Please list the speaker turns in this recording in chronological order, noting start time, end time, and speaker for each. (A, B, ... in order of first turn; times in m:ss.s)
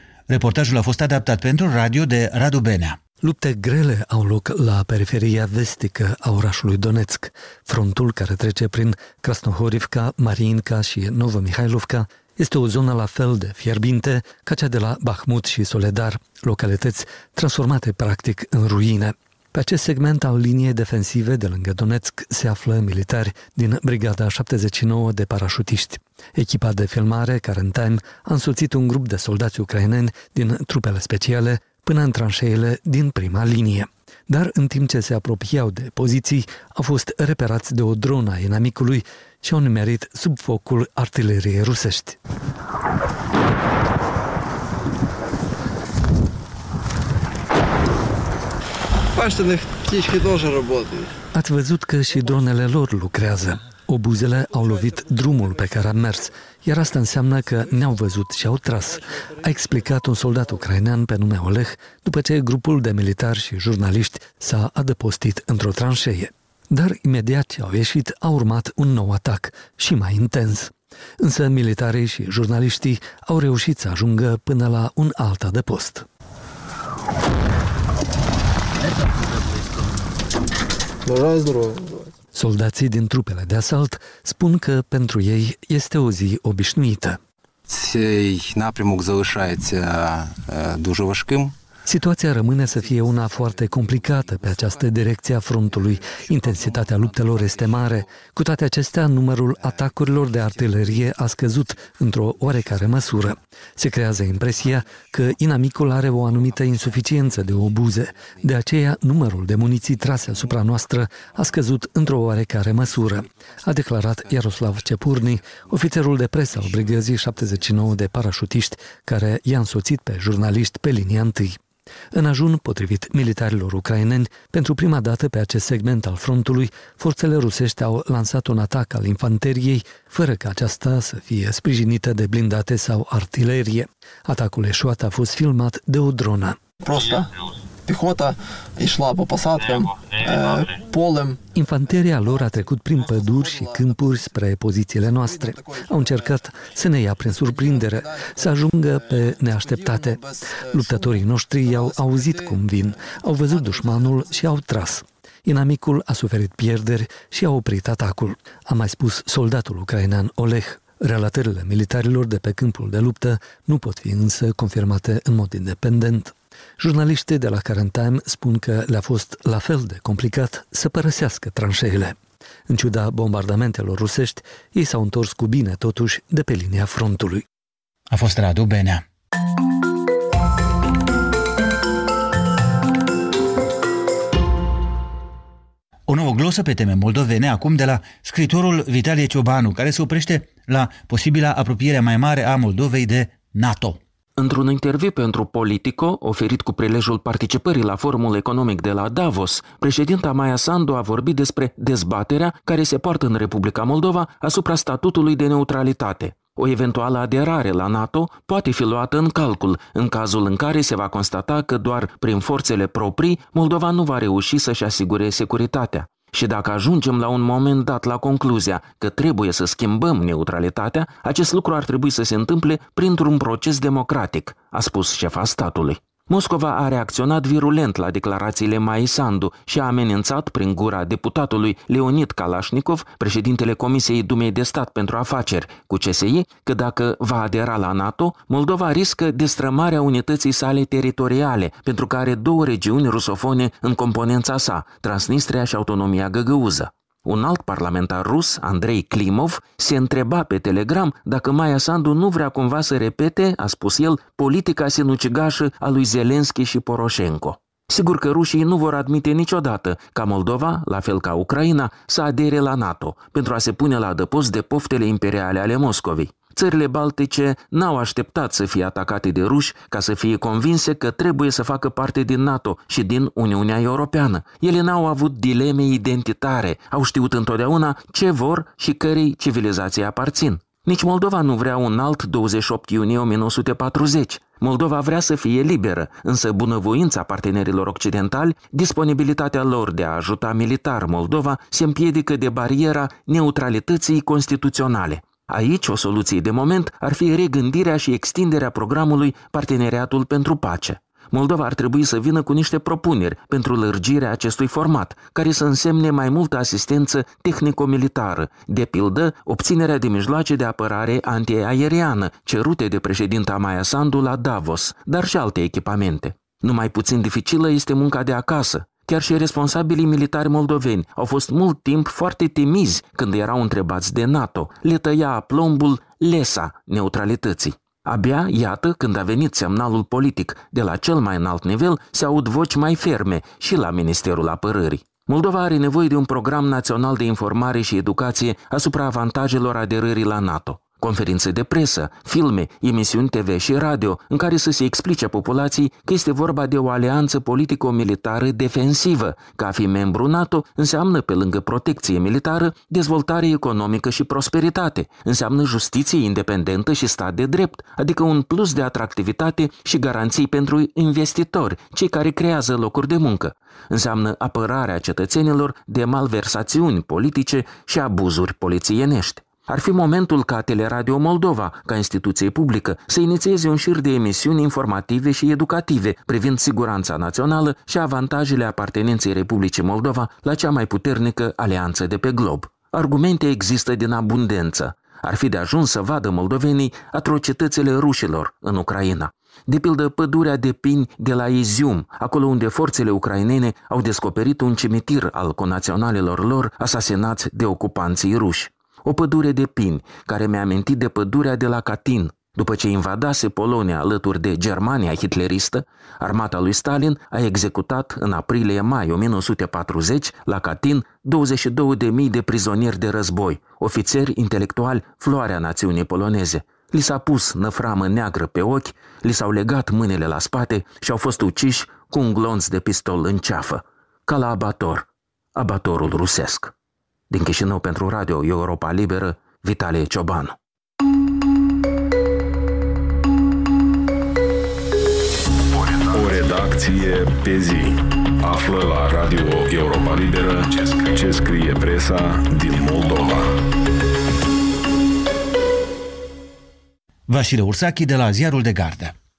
0:00.3-0:03.0 A
0:03.2-0:42.2 B
0:49.1-0:51.1 C
0:51.3-1:16.0 B
0:54.6-0:56.0 C
0:57.4-0:57.9 C
0:58.9-0:59.4 C
1:21.0-1:22.1 C
1:22.3-1:27.2 B
1:27.7-1:31.5 D
1:31.9-2:01.6 B
1:32.7-1:34.9 C
1:35.5-1:38.1 C
1:40.5-1:40.9 C
2:02.1-2:16.6 B
2:16.8-2:17.3 C
2:17.8-2:24.3 C
2:21.5-2:52.2 B
2:25.0-2:34.4 C
2:52.7-2:57.4 B
2:58.1-2:59.0 A
3:06.1-3:14.0 A
3:14.4-7:06.7 E
7:07.3-7:10.5 E
7:15.8-7:23.5 F
7:27.3-7:29.1 A